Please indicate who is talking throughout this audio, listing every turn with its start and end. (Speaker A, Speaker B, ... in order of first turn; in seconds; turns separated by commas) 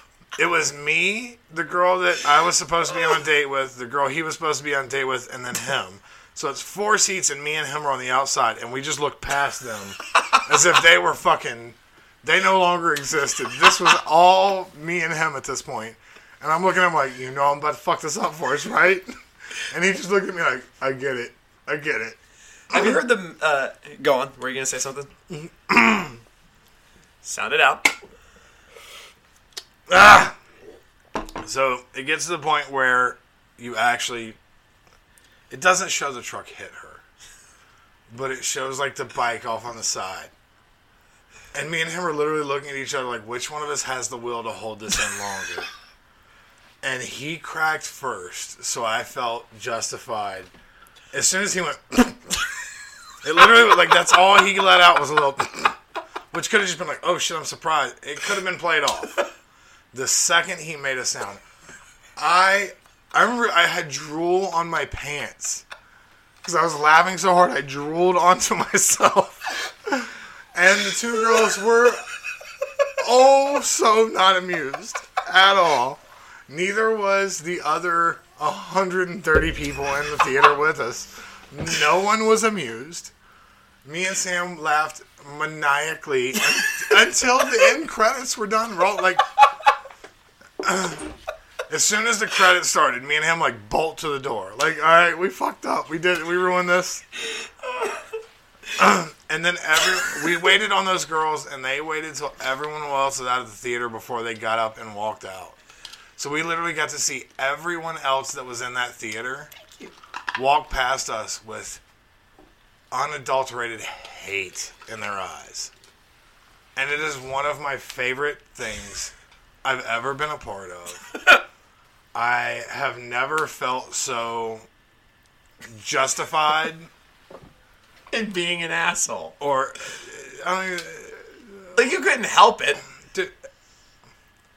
Speaker A: 0.4-19.1, Speaker A: 19.7-22.2, Speaker B: 22.7-25.1, Speaker A: 25.3-26.2, Speaker B: 27.2-27.9, Speaker A: 29.9-30.4, Speaker A: 31.4-34.4, Speaker A: 35.5-37.0, Speaker A: 38.1-40.3, Speaker A: 41.5-45.7, Speaker A: 46.8-50.5, Speaker A: 51.1-52.3, Speaker A: 53.2-55.8, Speaker A: 56.3-59.2, Speaker A: 59.9-61.4, Speaker A: 62.2-65.7, Speaker A: 66.4-72.0, Speaker A: 73.0-83.1, Speaker A: 83.8-89.4, Speaker A: 90.6-91.1, Speaker A: 91.7-97.0, Speaker A: 98.8-105.6, Speaker A: 106.2-109.5, Speaker A: 110.3-111.8, Speaker A: 112.9-115.7, Speaker A: 116.8-119.1, Speaker A: 119.6-121.1, Speaker A: 122.1-124.7, Speaker A: 125.7-126.9, Speaker B: 128.1-129.4, Speaker A: 129.4-131.8, Speaker B: 131.8-132.8